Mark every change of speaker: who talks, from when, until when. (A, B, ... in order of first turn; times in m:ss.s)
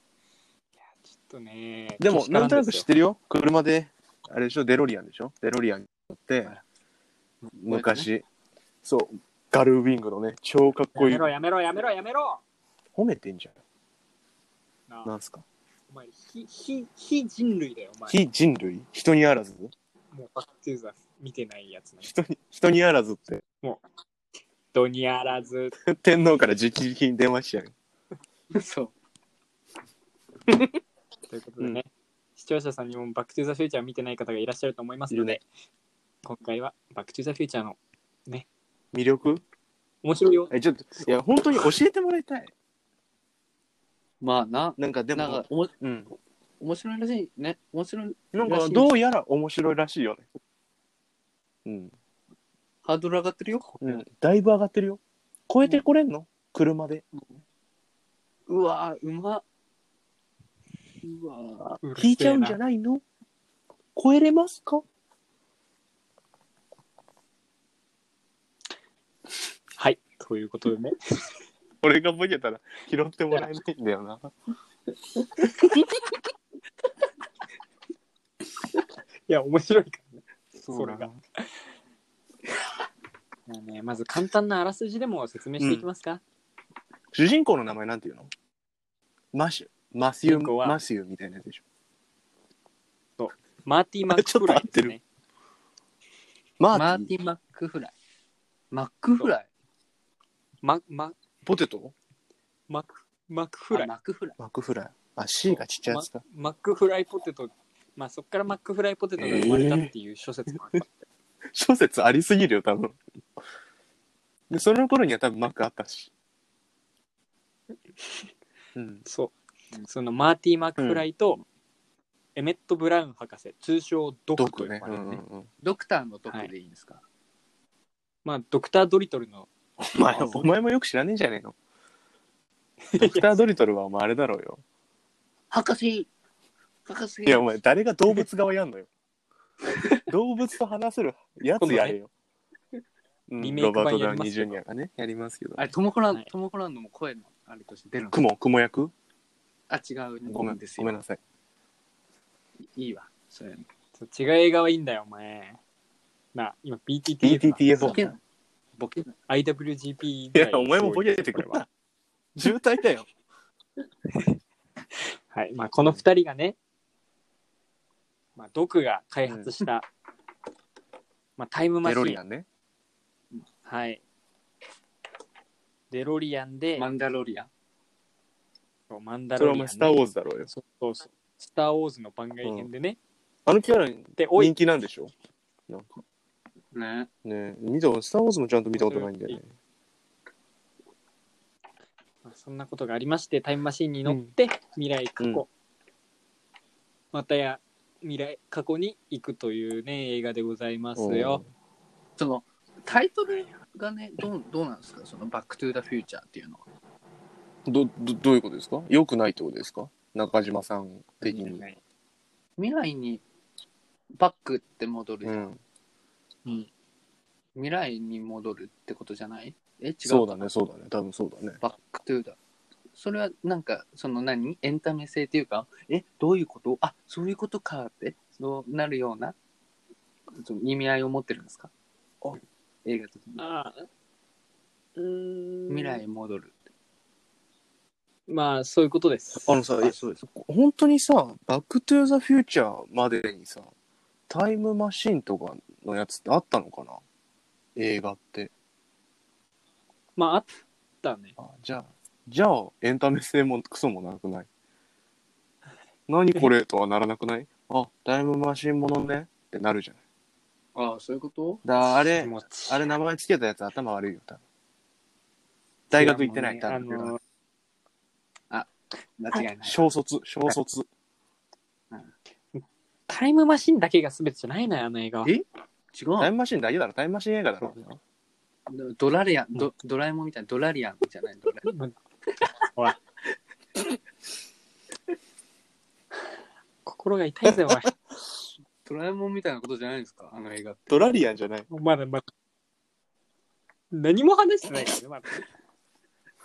0:00.8-0:02.8 A
0:02.0-0:06.6 B
0:07.5-0:08.1 C
0:07.6-0:08.2 B
0:08.8-0:11.3 B
0:11.0-0:12.4 A
0:13.0-0:13.6 B
0:14.9-0:15.1 A
0:15.0-0:15.4 B
0:15.9-0:18.2 A
0:18.1-0:19.7 B
0:20.1-0:22.1 A
0:22.0-0:23.4 B
0:24.7-0:25.7 A
0:25.8-0:27.7 B
0:28.5-0:28.9 C
0:30.5-0:30.8 B
0:31.3-0:35.4 A
0:35.1-0:35.4 B
0:36.2-0:38.5 A
0:38.9-0:39.4 B
0:40.0-0:40.5 A
0:40.5-0:42.5 B
0:44.2-0:45.7 C
0:44.8-0:46.1 B
0:46.6-0:48.9 C
0:48.3-0:50.3 B
0:51.6-0:51.9 B
0:52.8-0:53.8 C
0:53.8-0:57.0 B
0:57.1-0:57.4 C
0:58.5-0:59.4 C
1:01.0-1:01.8 C
1:01.8-1:02.6 A
1:02.0-1:03.0 B
1:04.0-1:04.8 B
1:09.8-1:11.0 A
1:11.8-1:14.3 B
1:15.4-1:15.7 B
1:19.3-1:21.6 A
1:20.6-1:21.2 B
1:23.5-1:26.2 A
1:25.6-1:25.9 B
1:27.1-1:28.3 B
1:29.3-1:31.6 B
1:30.2-1:30.8 A
1:33.2-1:35.0 A
1:34.1-1:35.0 B
1:36.6-1:37.1 B
1:36.7-1:37.9 C
1:38.7-1:39.5 C
1:40.6-1:41.2 A
1:41.4-1:41.9 B
1:42.7-1:43.9 A
1:43.7-1:44.4 C
1:44.4-1:46.2 B
1:45.9-1:50.9 A
1:49.2-1:49.9 B
1:51.5-1:53.0 B
1:54.5-1:56.1 B
1:58.8-1:59.0 B
1:59.0-1:59.3 A
1:59.9-2:01.4 A
2:00.8-2:01.1 B
2:02.4-2:05.2 A
2:04.4-2:05.5 B
2:05.6-2:07.0 C
2:08.2-2:09.5 A
2:09.8-2:11.6 B
2:10.1-2:10.5 A
2:12.9-2:13.4 A
2:13.0-2:14.6 B
2:15.5-2:16.1 C
2:16.9-2:17.5 C
2:17.3-2:18.9 B
2:20.1-2:22.1 B
2:21.6-2:22.0 A
2:23.3-2:25.7 B
2:23.4-2:24.6 A
2:25.6-2:28.2 C
2:28.1-2:28.9 B
2:29.7-2:31.0 C
2:30.3-2:31.2 B
2:32.7-2:33.7 C
2:34.0-2:35.6 A
2:36.3-2:38.0 A
2:37.2-2:38.2 B
2:37.8-2:38.2 C
2:38.8-2:39.1 C
2:39.3-2:41.6 A
2:40.3-2:41.7 B
2:42.4-2:43.1 B
2:45.3-2:46.6 A
2:48.4-2:49.9 A
2:49.3-2:49.5 B
2:51.4-2:52.2 A
2:51.8-2:52.5 B
2:53.6-2:54.0 A
2:55.9-2:56.8 A
2:56.8-2:57.5 C
2:58.9-3:03.0 A
2:59.4-3:00.5 B
3:02.4-3:02.7 B
3:03.5-3:05.1 B
3:04.2-3:04.6 A
3:06.7-3:07.1 C
3:07.2-3:09.5 B
3:08.7-3:09.4 A
3:12.2-3:15.5 A
3:15.2-3:15.4 B
3:17.1-3:21.4 A
3:21.0-3:21.5 B
3:22.2-3:26.6 C
3:27.7-3:31.6 B
3:31.2-3:31.8 A
3:32.6-3:33.2 C
3:34.2-3:35.5 C
3:35.2-3:35.6 B
3:37.6-3:40.5 C
3:40.0-3:41.6 B
3:41.6-3:42.4 C
3:42.9-3:49.4 C
3:50.3-3:51.7 C
3:52.8-3:53.5 C
3:53.4-3:53.9 A
3:55.0-3:56.0 B
3:55.7-3:56.5 C
3:58.3-3:59.6 A
3:59.4-4:03.7 B
3:59.8-4:00.2 C
4:04.3-4:07.0 B
4:07.8-4:08.5 B
4:10.2-4:10.5 A
4:11.0-4:11.4 A
4:11.4-4:14.5 B
4:16.1-4:20.0 B
4:20.8-4:21.6 C
4:21.6-4:24.4 B
4:22.2-4:22.9 A
4:25.9-4:27.1 B
4:25.9-4:27.2 A
4:28.5-4:29.8 C
4:29.6-4:30.9 B
4:32.6-4:35.3 A
4:35.9-4:36.3 C
4:36.2-4:38.0 B
4:38.7-4:41.7 C
4:41.6-4:42.0 A
4:46.9-4:48.0 A
4:47.4-4:47.9 B
4:48.8-4:51.2 C
4:50.9-4:51.7 B
4:51.7-4:52.2 A
4:53.9-4:55.4 A